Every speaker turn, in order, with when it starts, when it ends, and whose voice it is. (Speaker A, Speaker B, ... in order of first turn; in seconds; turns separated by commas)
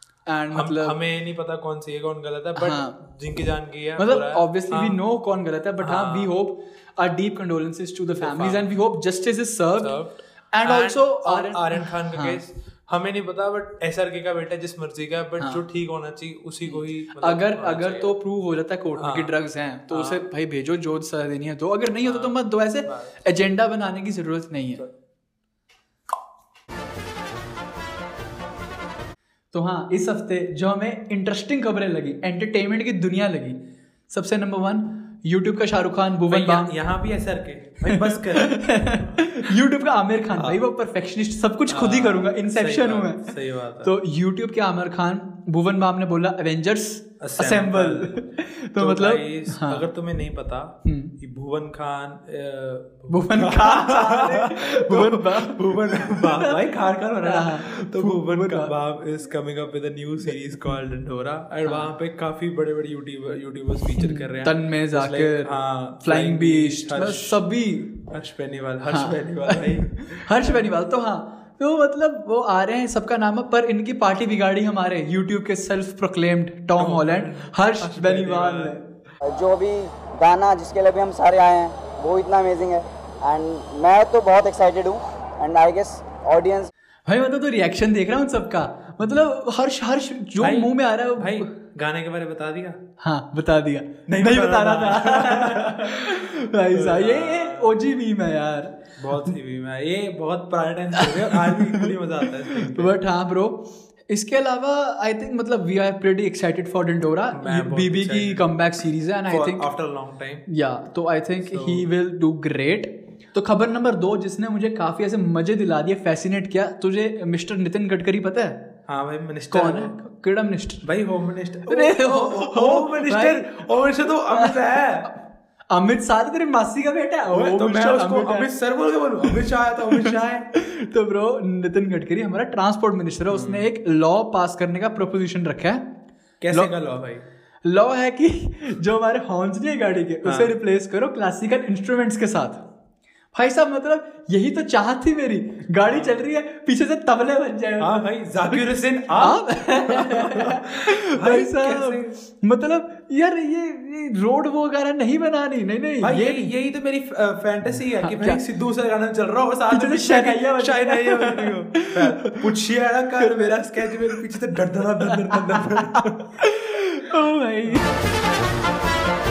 Speaker A: 0.3-1.0, Speaker B: 0.5-5.0, Speaker A: 2.6-3.0, Speaker A: 4.0-10.0, Speaker B: 5.8-6.3, Speaker B: 8.2-8.7, Speaker B: 9.8-18.1, Speaker A: 10.5-12.4, Speaker A: 15.4-15.6, Speaker A: 16.7-24.9, Speaker B: 19.0-19.4, Speaker B: 19.9-20.2, Speaker B: 22.0-23.2, Speaker A: 29.5-36.8, Speaker B: 36.3-39.3, Speaker A: 37.9-43.3, Speaker B: 41.7-43.9, Speaker A: 43.8-49.8, Speaker B: 47.2-48.2, Speaker B: 48.8-67.4, Speaker A: 50.9-51.1, Speaker A: 53.1-56.6, Speaker A: 57.2-58.7, Speaker A: 63.9-68.0, Speaker B: 68.1-70.7, Speaker A: 68.9-78.8, Speaker B: 76.8-78.8, Speaker C: 79.2-86.7, Speaker A: 87.1-91.5, Speaker B: 90.4-92.8, Speaker A: 93.0-99.2, Speaker B: 94.1-97.9, Speaker B: 99.0-103.0, Speaker A: 101.0-101.9, Speaker A: 102.5-109.7, Speaker B: 107.3-108.5, Speaker B: 109.3-110.5, Speaker A: 110.5-118.7, Speaker B: 111.5-111.9, Speaker B: 118.9-119.9, Speaker A: 119.5-120.9, Speaker B: 120.8-125.1, Speaker A: 121.7-123.7, Speaker A: 124.3-125.2, Speaker A: 125.7-128.5, Speaker B: 127.3-130.5, Speaker A: 129.2-135.8, Speaker B: 133.3-133.7, Speaker B: 136.4-137.2, Speaker A: 137.7-142.7, Speaker B: 140.2-140.5, Speaker A: 143.3-156.5, Speaker B: 145.9-146.2, Speaker B: 147.8-152.1, Speaker B: 156.0-166.5, Speaker A: 158.0-158.4, Speaker A: 159.7-162.5, Speaker A: 163.2-164.3, Speaker A: 165.1-165.8, Speaker A: 166.4-167.9